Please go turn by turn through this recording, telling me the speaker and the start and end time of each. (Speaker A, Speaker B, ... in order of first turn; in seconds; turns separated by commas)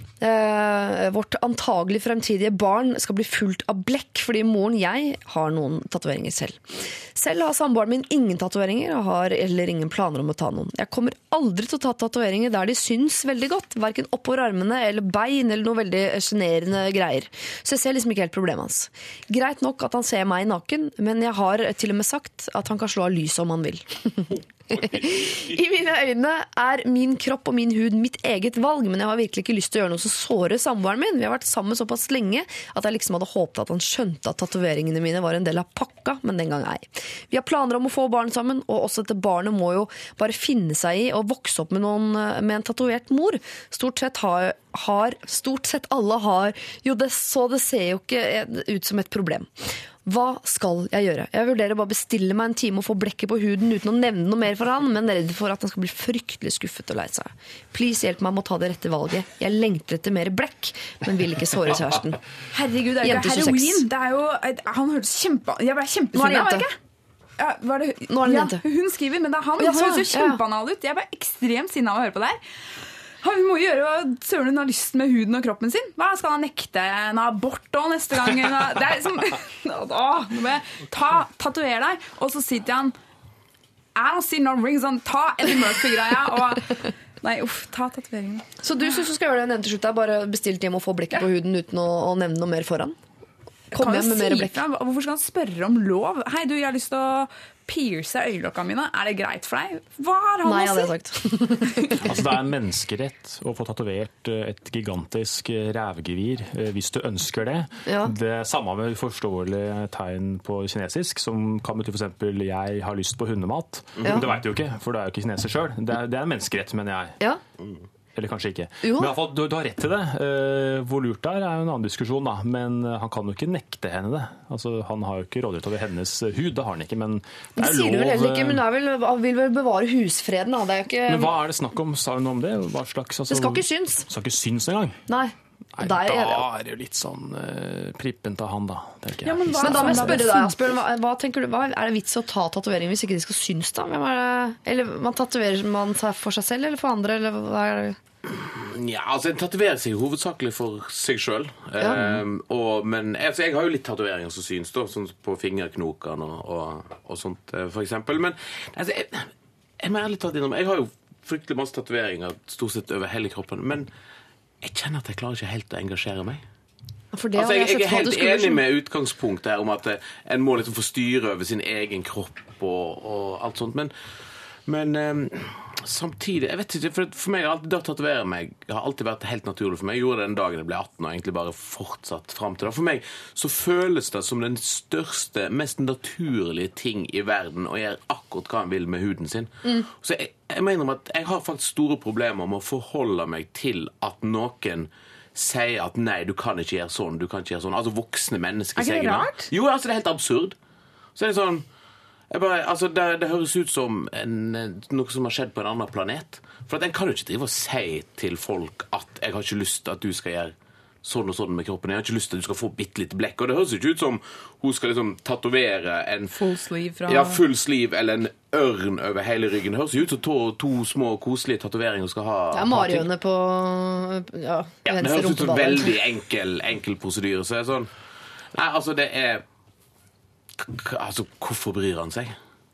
Speaker A: 0.2-49.5, Speaker B: 24.7-25.6, Speaker A: 50.0-62.2, Speaker C: 62.5-66.8, Speaker A: 63.0-63.8, Speaker A: 66.1-66.7, Speaker C: 67.4-72.4, Speaker A: 68.1-68.6, Speaker A: 69.6-70.4, Speaker C: 73.2-82.9, Speaker C: 83.9-88.5, Speaker A: 88.6-93.0, Speaker A: 93.7-94.5, Speaker C: 93.7-100.9, Speaker A: 100.4-102.0, Speaker D: 102.0-117.2, Speaker A: 107.8-108.1, Speaker B: 114.0-114.2, Speaker D: 118.1-128.6, Speaker A: 118.8-119.1, Speaker A: 127.6-131.3, Speaker D: 131.1-135.0, Speaker A: 133.3-134.1, Speaker A: 135.1-136.4, Speaker D: 135.7-140.3, Speaker C: 139.2-140.6, Speaker A: 139.6-148.0, Speaker B: 148.3-163.9, Speaker B: 164.6-166.4, Speaker A: 167.1-168.6, Speaker B: 167.3-173.9, Speaker B: 174.7-200.6, Speaker C: 198.8-199.5, Speaker B: 201.2-201.6, Speaker B: 202.3-216.4, Speaker C: 216.3-217.4, Speaker B: 217.1-223.1, Speaker A: 222.5-225.9, Speaker B: 224.8-227.9, Speaker B: 228.5-229.4, Speaker B: 230.6-232.3